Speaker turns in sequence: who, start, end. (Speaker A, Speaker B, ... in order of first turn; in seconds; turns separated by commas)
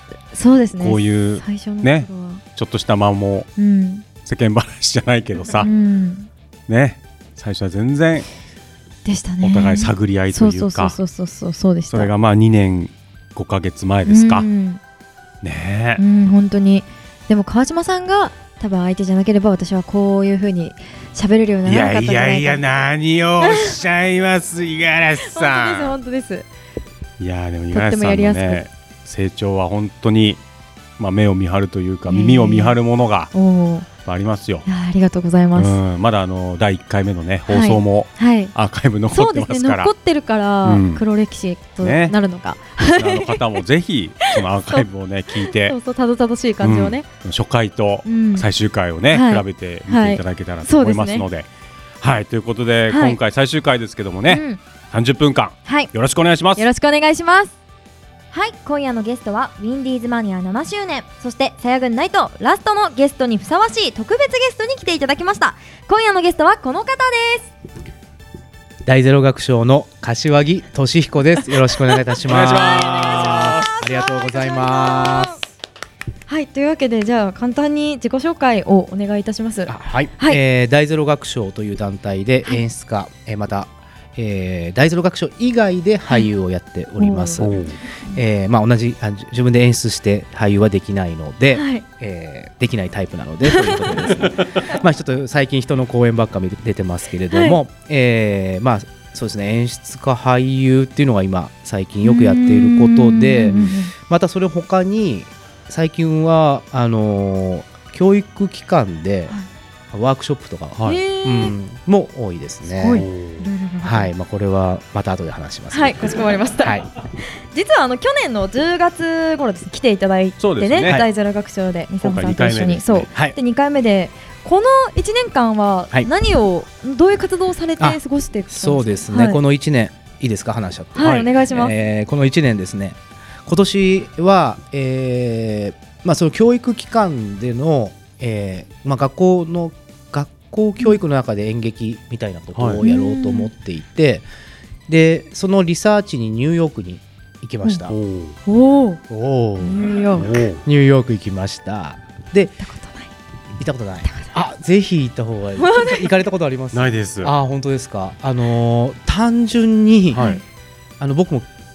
Speaker A: 0.3-2.4, Speaker B: 0.8-3.5, Speaker A: 3.6-4.0, Speaker B: 4.2-5.7, Speaker A: 5.6-6.3, Speaker B: 6.7-8.3, Speaker A: 9.0-12.1, Speaker B: 9.4-11.0, Speaker B: 11.9-14.4, Speaker A: 14.1-14.8, Speaker B: 15.4-16.0, Speaker A: 16.0-22.6, Speaker B: 21.6-25.9, Speaker A: 23.4-23.7, Speaker A: 25.2-26.4, Speaker B: 27.2-30.4, Speaker A: 27.7-28.6, Speaker B: 31.0-33.3, Speaker A: 32.1-32.8, Speaker A: 33.3-33.9, Speaker B: 34.0-34.7, Speaker A: 34.7-35.8, Speaker B: 35.5-39.9, Speaker A: 37.5-38.5, Speaker A: 39.1-43.4, Speaker B: 40.6-41.0, Speaker B: 41.8-42.1, Speaker B: 42.9-45.8, Speaker A: 45.5-47.0, Speaker B: 46.6-51.5, Speaker A: 48.0-48.5, Speaker A: 49.1-51.2, Speaker B: 52.0-56.6, Speaker A: 52.9-53.2, Speaker A: 54.3-54.6, Speaker A: 56.6-57.5, Speaker A: 58.3-67.5, Speaker C: 68.8-75.4, Speaker B: 72.2-73.8, Speaker A: 72.5-75.4, Speaker A: 76.3-80.4, Speaker C: 79.7-109.3, Speaker A: 87.0-87.4, Speaker B: 87.4-87.8, Speaker A: 91.5-91.8, Speaker A: 93.5-93.8, Speaker A: 97.3-97.6, Speaker A: 102.0-103.9, Speaker C: 109.9-113.0, Speaker A: 110.9-111.5, Speaker A: 112.6-114.1, Speaker B: 112.9-113.5, Speaker C: 113.8-116.9, Speaker A: 115.7-116.8, Speaker A: 117.5-129.4, Speaker B: 120.4-121.0, Speaker B: 122.0-123.1, Speaker C: 127.8-144.3, Speaker A: 130.9-131.7, Speaker B: 131.0-131.3, Speaker B: 142.6-142.8, Speaker A: 142.8-143.5, Speaker C: 144.9-147.9, Speaker B: 147.9-148.4, Speaker A: 148.4-149.0, Speaker C: 149.1-149.8, Speaker A: 149.6-150.3, Speaker B: 150.2-150.6, Speaker C: 150.6-152.6, Speaker A: 152.6-153.1, Speaker C: 153.6-160.3, Speaker A: 154.0-154.3, Speaker A: 155.6-156.0, Speaker B: 156.7-157.3, Speaker A: 160.1-160.4, Speaker B: 160.1-160.4, Speaker C: 161.0-161.5